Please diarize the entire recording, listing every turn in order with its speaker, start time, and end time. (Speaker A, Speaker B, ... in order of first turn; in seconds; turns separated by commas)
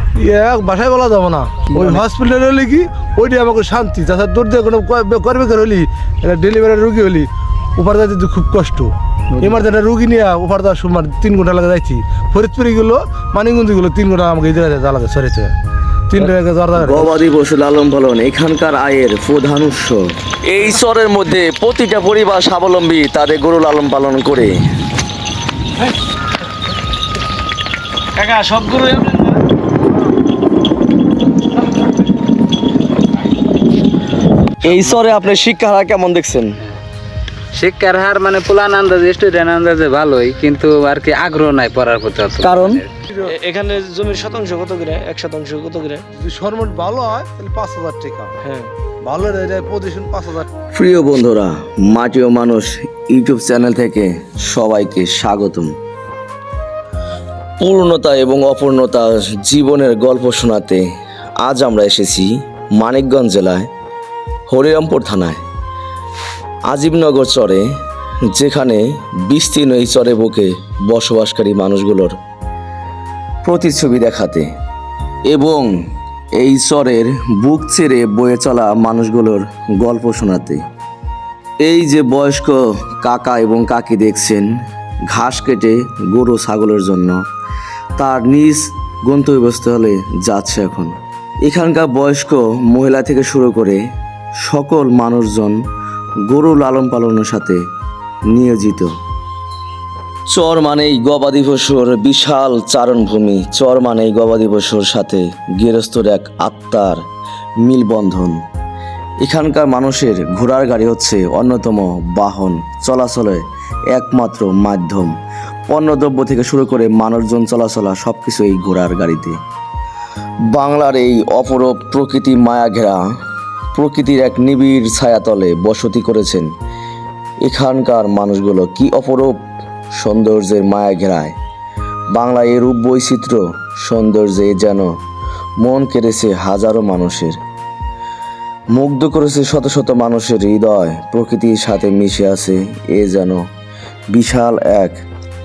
Speaker A: 0.2-15.5, Speaker B: 1.7-2.0, Speaker A: 16.1-17.2, Speaker C: 16.7-24.6, Speaker B: 28.1-29.3, Speaker C: 34.6-36.6, Speaker D: 37.5-42.9, Speaker C: 42.4-42.8, Speaker B: 43.2-46.0, Speaker A: 46.2-48.3, Speaker B: 48.4-48.7, Speaker A: 49.0-50.5, Speaker C: 50.7-55.7, Speaker C: 57.6-60.8, Speaker C: 61.4-63.7, Speaker C: 64.5-65.4, Speaker C: 66.7-67.6, Speaker C: 68.3-72.1, Speaker C: 73.4-74.5, Speaker C: 75.3-75.7, Speaker C: 76.3-80.6, Speaker C: 81.6-84.5, Speaker C: 85.1-87.2, Speaker C: 88.0-90.9, Speaker C: 91.4-93.8, Speaker C: 94.4-95.6, Speaker C: 96.3-97.6, Speaker C: 98.3-98.9, Speaker C: 100.3-107.0, Speaker C: 107.6-108.4, Speaker C: 109.2-115.1, Speaker C: 115.7-119.4, Speaker C: 120.5-123.0, Speaker C: 123.7-126.5, Speaker C: 127.4-129.3, Speaker C: 129.9-131.3, Speaker C: 132.1-134.9, Speaker C: 135.6-137.4, Speaker C: 138.7-143.4, Speaker C: 144.1-145.0